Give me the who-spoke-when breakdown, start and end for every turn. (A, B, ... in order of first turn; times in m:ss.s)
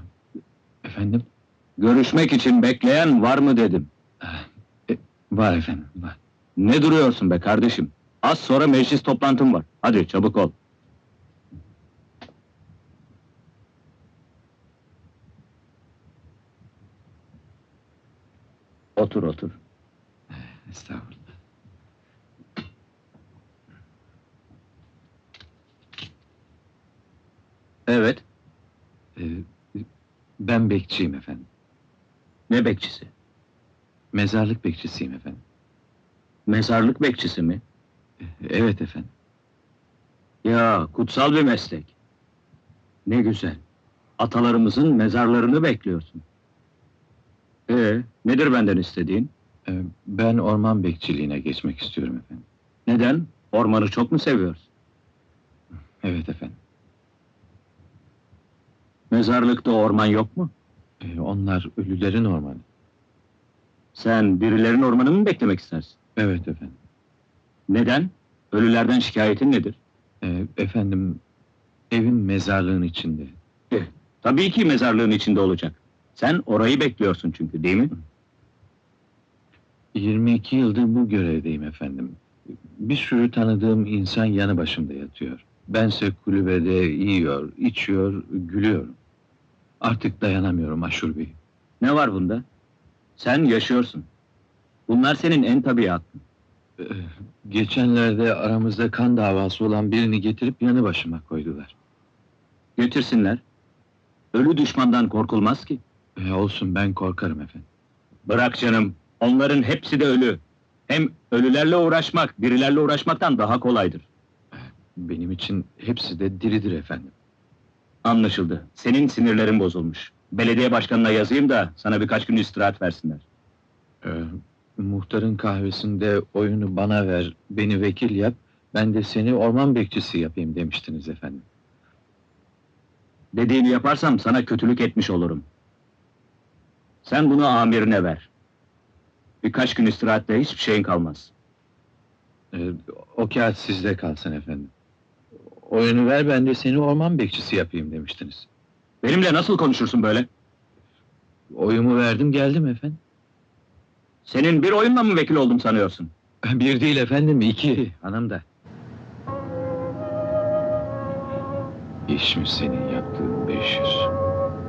0:00.8-0:01.3 A
0:01.8-0:03.9 B
0:04.2-0:06.2 A
0:06.6-0:10.5 B
0:19.0-0:19.6 B
0:20.3-0:21.2 A
0:27.9-0:28.2 B
0:29.2-0:29.9 A
0:30.4-0:31.5 A
0:32.5-0:33.1 B
0:34.1-0:35.4 A
0:36.5-0:37.6 B
0:38.2-0:39.1 A
0:40.4-0:41.9 B
0:43.1-0:43.6 B
0:44.2-0:46.2 B
0:47.7-0:49.3 B
0:49.7-0:52.5 A
0:52.9-0:54.6 B
0:56.0-0:56.6 A
0:59.1-1:00.5 B
1:01.0-1:02.6 A
1:04.0-1:06.0 B
1:06.2-1:06.8 A
1:07.7-1:09.8 B
1:10.2-1:11.2 A
1:11.9-1:13.4 A
1:13.7-1:17.9 B
1:19.9-1:29.0 A
1:29.8-1:31.4 A
1:31.8-1:32.4 B
1:33.2-1:34.1 B
1:34.9-1:36.2 B
1:36.8-1:41.8 A
1:42.8-1:43.4 B
1:44.3-1:45.8 B
1:46.2-1:47.7 A
1:48.3-1:54.1 B
1:54.5-1:57.1 A
1:58.0-2:03.2 B
2:04.0-2:11.4 A
2:13.3-2:15.5 B
2:17.0-2:18.3 B
2:19.4-2:21.3 B
2:22.5-2:24.7 A
2:25.5-2:28.5 A
2:29.0-2:30.3 B
2:31.5-2:33.0 A
2:34.2-2:36.1 B
2:36.5-2:38.4 A
2:42.1-2:44.1 A